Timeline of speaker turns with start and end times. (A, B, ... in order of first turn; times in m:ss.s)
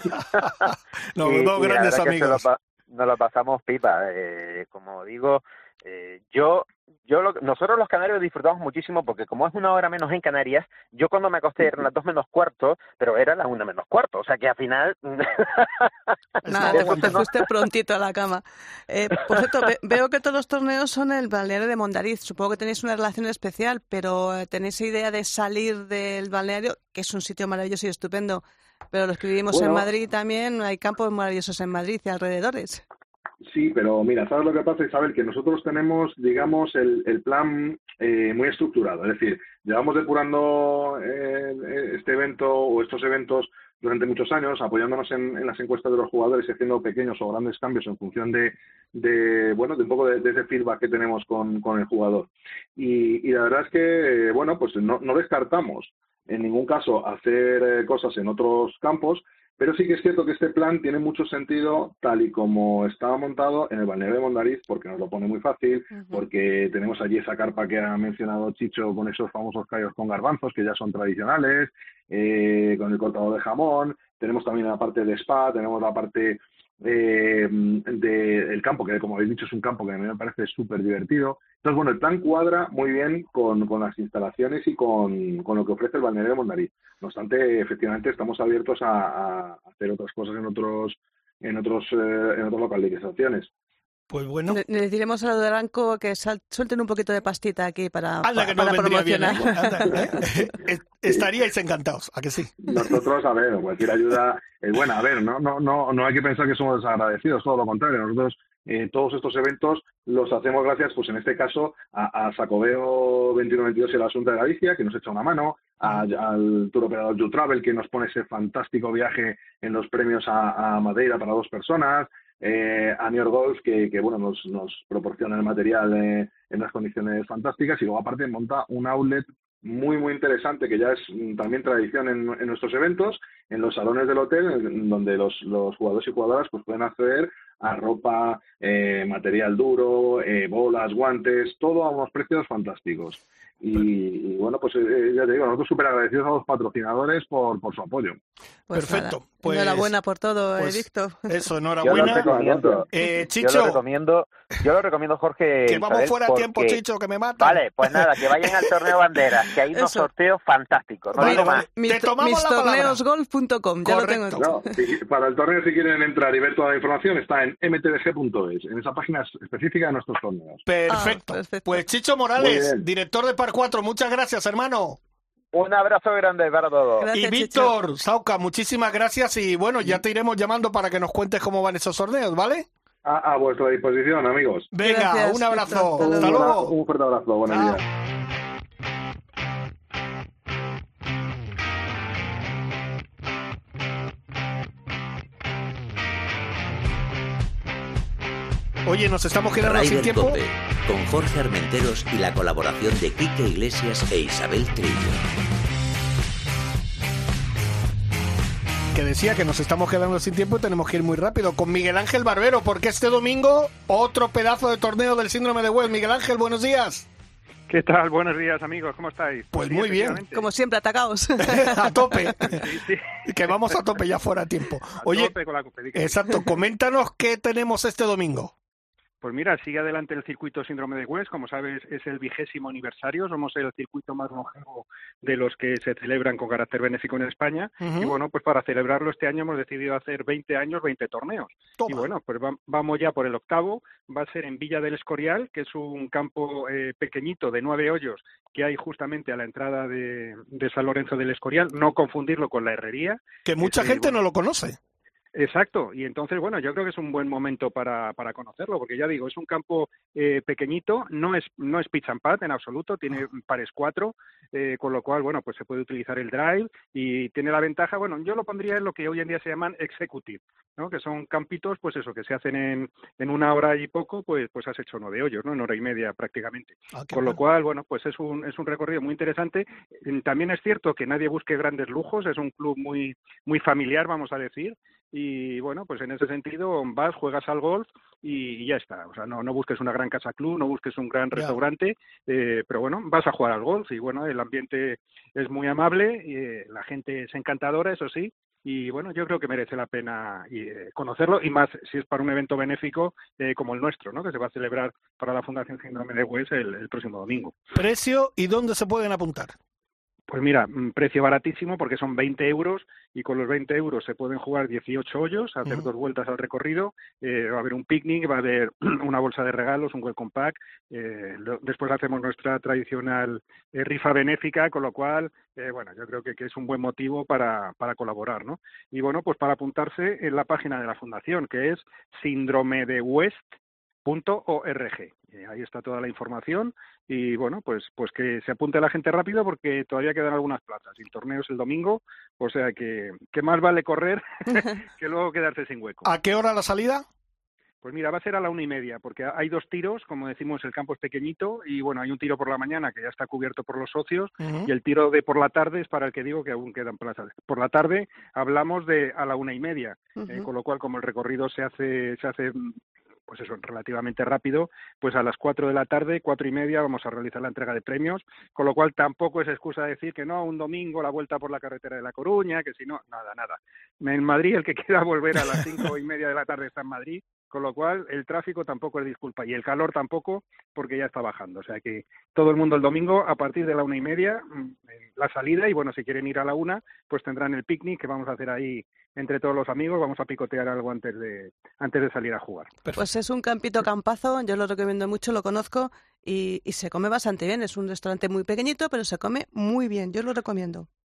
0:00.2-0:15.9 A
0:00.6-0:02.4 B
0:16.4-0:17.2 B
0:16.5-0:32.8 C
0:16.6-0:17.3 A
0:29.5-0:29.8 D
0:33.4-1:33.5 D
1:05.9-1:06.2 C
1:34.1-1:34.6 B
1:34.5-1:40.2 C
1:38.2-1:42.6 B
1:42.6-2:28.2 D
2:28.7-2:31.4 C
2:28.7-2:29.9 B
2:30.6-2:32.4 B
2:31.8-2:36.8 A
2:31.8-2:32.9 D
2:32.9-2:33.8 B
2:35.7-2:38.1 B
2:37.4-2:41.7 A
2:39.7-2:40.1 C
2:41.2-2:43.0 B
2:41.2-2:44.7 C
2:43.8-2:44.4 B
2:44.4-2:50.6 D
2:50.6-2:55.0 B
2:50.9-2:51.8 C
2:52.4-2:52.8 D
2:55.5-2:57.1 A
2:57.0-2:57.7 C
2:57.1-3:02.7 B
3:03.0-3:04.7 D
3:04.7-3:06.7 B
3:04.8-3:06.5 C
3:06.0-3:07.8 D
3:07.5-3:07.8 B
3:18.8-3:20.4 B
3:19.6-3:25.2 E
3:28.9-3:37.1 B
3:37.7-3:40.5 F
3:39.5-3:40.2 B
3:40.3-3:42.0 C
3:41.4-3:42.6 B
3:42.5-3:43.6 F
3:43.2-3:45.3 B
3:45.0-3:46.5 F
3:45.9-3:48.5 B
3:49.2-4:14.2 F
3:57.8-3:58.1 B
4:01.8-4:02.1 B
4:13.4-4:14.8 B
4:15.3-5:07.6 F
4:36.9-4:37.4 B
5:07.7-5:09.5 B
5:10.3-5:33.5 F
5:34.0-5:46.0 F
5:46.0-5:47.0 B
5:47.8-6:02.7 F
5:54.4-5:54.7 B
6:03.3-6:32.7 F
6:33.0-6:40.9 C